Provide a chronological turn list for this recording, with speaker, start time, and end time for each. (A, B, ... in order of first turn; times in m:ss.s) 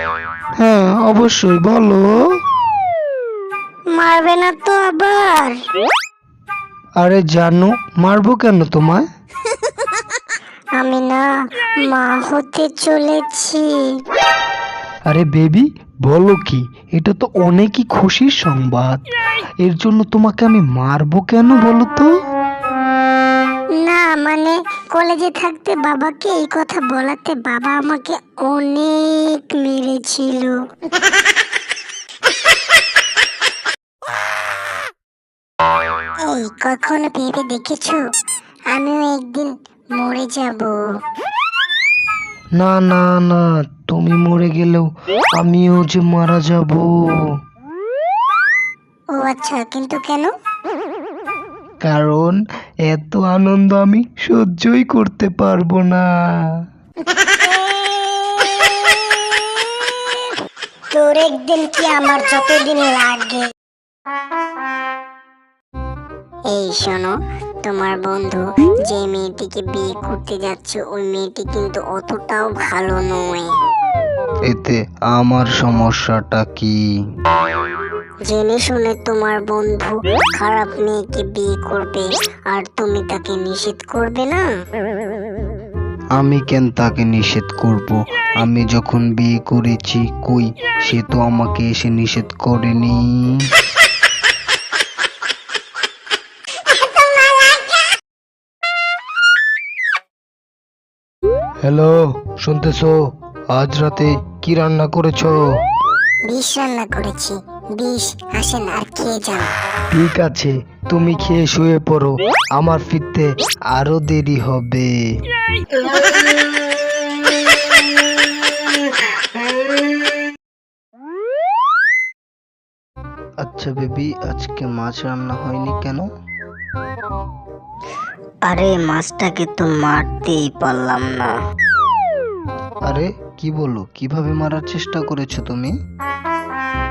0:00.6-0:02.1 A
0:03.9-0:05.6 B
0:07.0-0:09.0 A
0:10.8-0:11.2 B
0:11.9-0:13.9 B
0:15.1-0:19.0 A
0:19.6-0:22.1 A
0:23.8-0:30.6 B
0:36.2-0:38.0 B
0:38.7-0:40.8 B
0:42.6-0:44.9 A
0:45.4-0:46.9 A
0:49.2-0:50.3 B
0:51.8-0:56.0 A
0:57.2-1:00.3 B
1:00.9-1:03.4 B
1:06.5-1:13.5 B
1:14.5-1:16.7 A
1:18.2-1:24.4 B
1:26.2-1:33.1 A
1:41.6-1:43.0 A
1:43.5-1:45.4 A
1:46.3-1:49.5 B
1:49.9-1:54.9 A
2:03.4-2:06.1 A
2:08.4-2:11.3 B
2:12.8-2:15.7 A